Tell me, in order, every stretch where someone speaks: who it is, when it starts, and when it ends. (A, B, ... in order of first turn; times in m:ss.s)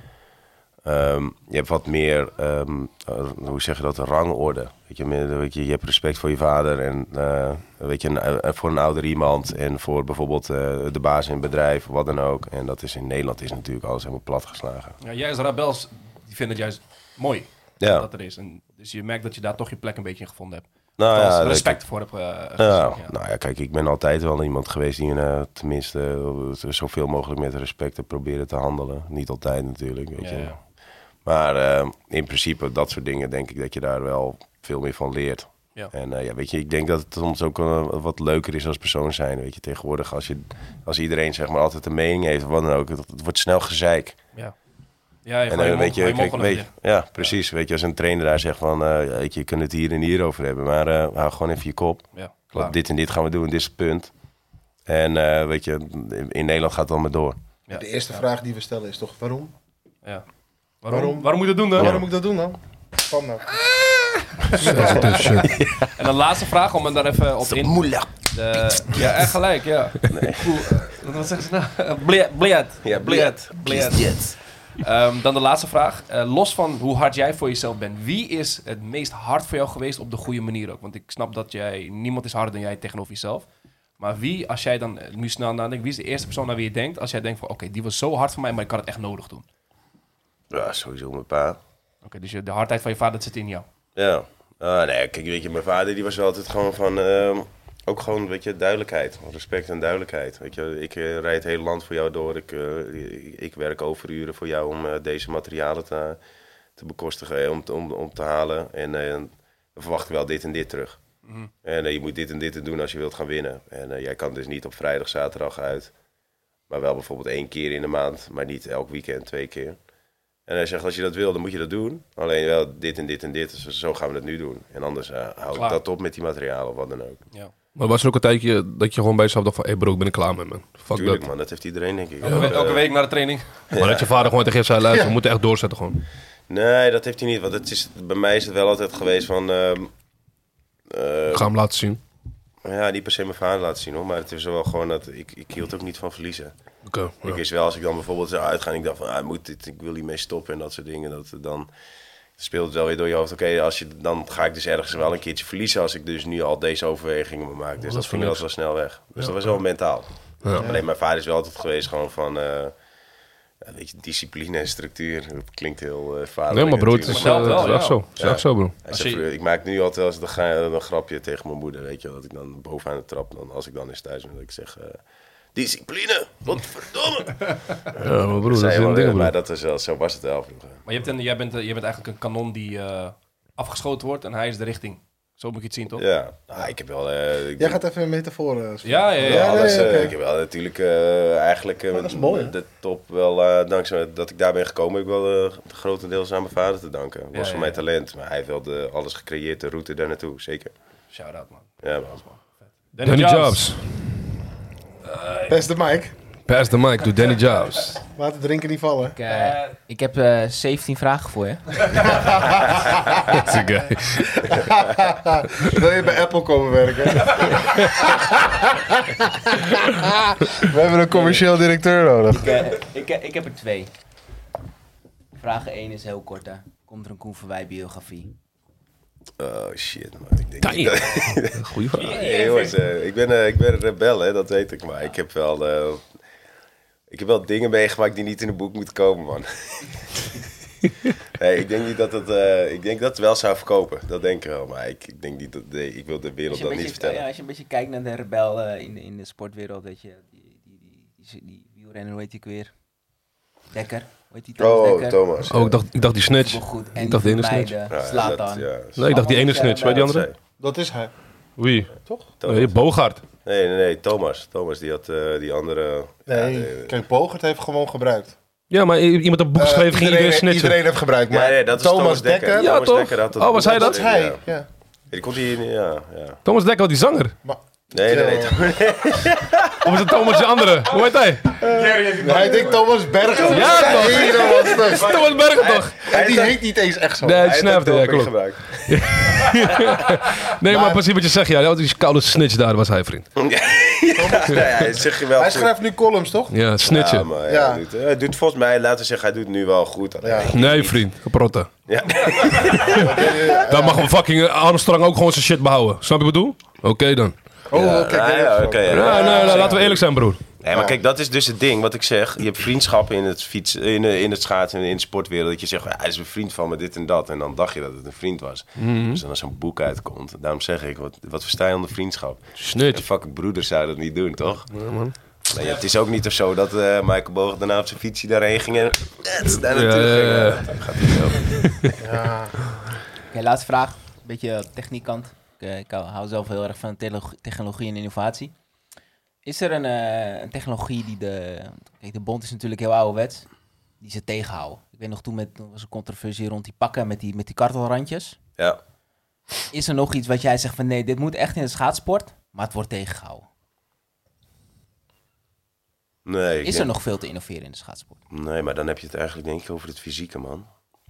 0:00.8-0:15.0 A
0:15.0-0:23.1 B
0:17.8-0:18.1 A
0:21.0-0:21.8 A
0:22.6-0:30.6 A
0:30.2-0:30.6 B
0:31.2-0:44.2 A
0:45.2-0:47.3 B
0:45.5-0:54.1 A
0:52.1-0:52.7 B
0:54.8-0:57.4 A
0:57.7-0:59.5 C
1:00.8-1:02.0 B
1:00.9-1:03.5 C
1:01.8-1:02.0 A
1:04.5-1:23.5 B
1:04.6-1:05.5 D
1:04.6-1:05.1 C
1:05.4-1:05.9 A
1:07.4-1:09.2 A
1:10.1-1:10.9 A
1:12.8-1:14.4 A
1:24.0-1:29.4 B
1:30.5-1:31.6 A
1:32.0-1:33.6 B
1:33.9-1:46.2 A
1:46.8-1:51.0 A
1:51.2-1:51.5 B
1:51.6-1:55.9 A
1:56.7-1:59.8 A
2:00.5-2:07.2 A
2:05.5-2:05.8 B
2:07.8-2:11.2 D
2:10.9-2:12.9 A
2:12.2-2:13.5 B
2:12.2-2:12.5 D
2:13.7-2:14.3 A
2:13.8-2:16.0 D
2:16.5-2:19.9 A
2:20.9-2:21.5 A
2:21.3-2:22.0 D
2:22.6-2:26.5 A
2:26.8-2:27.4 D
2:27.2-2:31.7 A
2:32.4-2:42.7 A
2:37.8-2:38.4 D
2:40.6-2:40.8 C
2:43.6-2:55.0 A
2:46.5-2:48.8 D
2:47.1-2:48.1 B
2:48.9-2:49.2 B
2:55.5-3:00.8 A
2:58.0-2:59.3 D
3:00.8-3:06.0 B
3:06.0-3:07.8 A
3:07.6-3:10.2 C
3:08.8-3:10.0 B
3:09.2-3:20.7 A
3:11.9-3:12.6 C
3:17.3-3:17.8 B
3:21.1-3:23.6 B
3:21.8-3:22.2 A
3:23.0-3:23.9 D
3:25.1-3:25.4 B
3:25.5-3:26.1 C
3:26.4-3:28.0 D
3:28.2-3:29.2 C
3:29.2-3:32.2 E
3:29.2-3:29.8 B
3:32.0-3:33.4 C
3:33.3-3:34.6 D
3:34.1-3:42.5 C
3:41.1-3:41.5 E
3:42.3-3:43.9 E
3:45.4-3:48.4 E
3:49.4-3:56.0 A
3:50.6-3:52.2 D
3:51.9-3:52.8 B
3:57.1-4:00.1 A
4:01.2-4:07.2 A
4:06.5-4:12.7 E
4:13.7-4:15.2 E
4:14.6-4:15.8 A
4:15.4-4:17.7 D
4:16.3-4:20.1 E
4:17.9-4:19.1 A
4:18.9-4:20.3 D
4:19.9-4:20.4 A
4:20.6-4:21.1 C
4:21.6-4:23.2 D
4:22.4-4:22.8 A
4:23.4-4:26.9 A
4:26.3-4:28.3 C
4:28.7-4:30.8 D
4:29.6-4:32.7 C
4:31.3-4:34.4 A
4:32.6-4:34.0 D
4:33.6-4:34.7 C
4:35.1-4:36.4 A
4:36.4-4:37.3 D
4:37.4-4:38.7 C
4:37.9-4:40.1 A
4:39.8-4:41.6 D
4:41.6-4:45.3 C
4:41.7-4:42.8 B
4:43.4-4:46.0 D
4:43.6-4:44.2 A
4:45.1-4:46.6 A
4:46.0-4:47.5 C
4:47.2-4:53.3 D
4:47.3-4:50.0 A
4:50.6-4:51.0 C
4:53.4-4:55.7 A
4:54.1-4:56.6 C
4:56.5-4:57.3 D
4:56.8-5:01.0 A
4:57.4-4:57.8 C
5:00.2-5:00.5 C
5:00.5-5:01.7 D
5:01.9-5:03.5 A
5:02.6-5:03.1 D
5:02.7-5:04.1 C
5:03.6-5:07.3 D
5:07.7-5:09.8 C
5:07.7-5:10.0 A
5:08.9-5:10.4 D
5:10.6-5:24.7 A
5:10.7-5:11.0 C
5:18.8-5:19.2 D
5:22.6-5:23.0 D
5:24.7-5:25.1 D
5:25.5-5:31.7 A
5:25.6-5:25.9 B
5:29.5-5:31.9 D
5:32.0-5:32.6 C
5:33.3-5:38.5 E
5:39.4-5:43.5 E
5:44.0-5:48.4 E
5:49.7-5:53.4 E
5:56.2-5:56.9 A
5:56.6-5:58.2 E
5:58.3-6:00.7 A